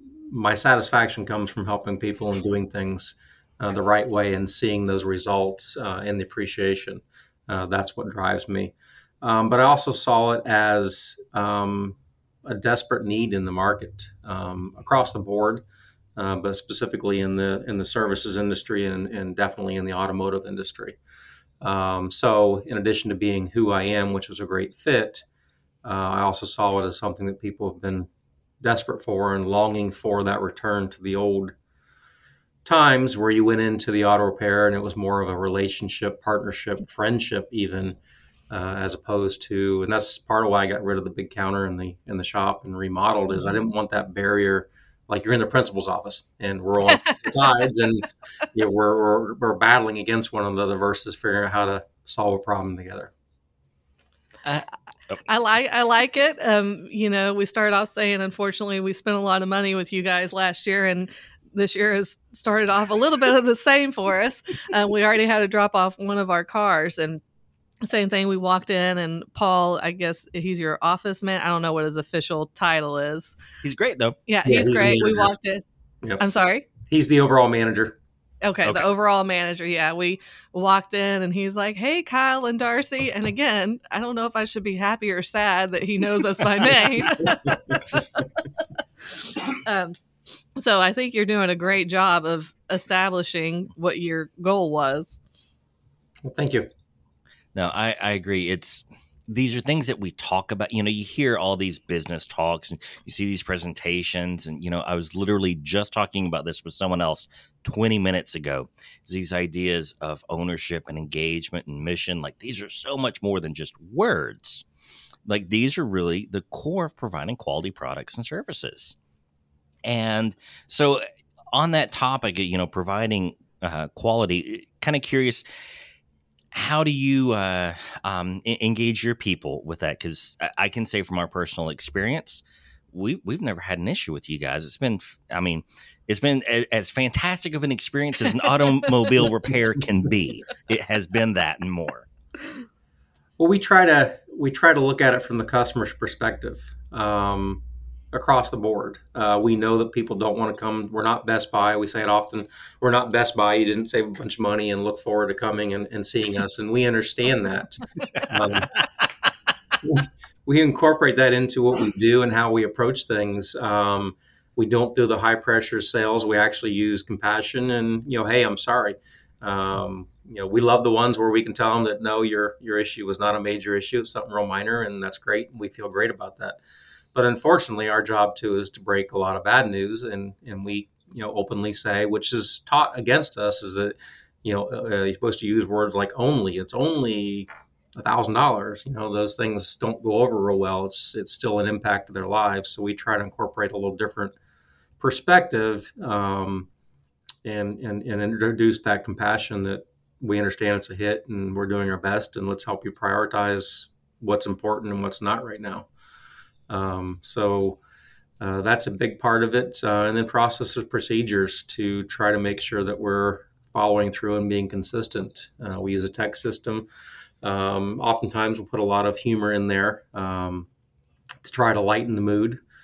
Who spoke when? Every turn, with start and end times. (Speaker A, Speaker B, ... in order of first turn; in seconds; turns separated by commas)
Speaker A: 0.3-15.7, Speaker A: 16.2-21.0, Speaker A: 21.6-25.2, Speaker A: 25.8-28.1, Speaker A: 28.6-31.5, Speaker A: 32.6-38.0, Speaker A: 38.5-53.1, Speaker B: 54.5-55.2, Speaker C: 55.3-67.2, Speaker C: 67.8-73.4, Speaker B: 73.6-74.2, Speaker C: 74.3-75.6, Speaker A: 74.5-75.3, Speaker C: 76.2-76.7, Speaker A: 76.8-78.0, Speaker C: 78.4-88.2, Speaker A: 87.5-87.8, Speaker C: 89.5-90.0, Speaker C: 90.6-95.2, Speaker A: 96.2-96.7, Speaker B: 97.5-114.6, Speaker B: 115.3-119.0, Speaker B: 119.8-125.4, Speaker B: 126.5-142.1, Speaker A: 143.4-147.6, Speaker A: 148.1-158.8, Speaker A: 159.8-176.6, Speaker A: 177.1-194.3, Speaker A: 195.0-196.7, Speaker A: 197.4-205.9, Speaker A: 206.7-207.8, Speaker A: 208.4-216.9, Speaker A: 217.4-220.7, Speaker A: 221.4-222.6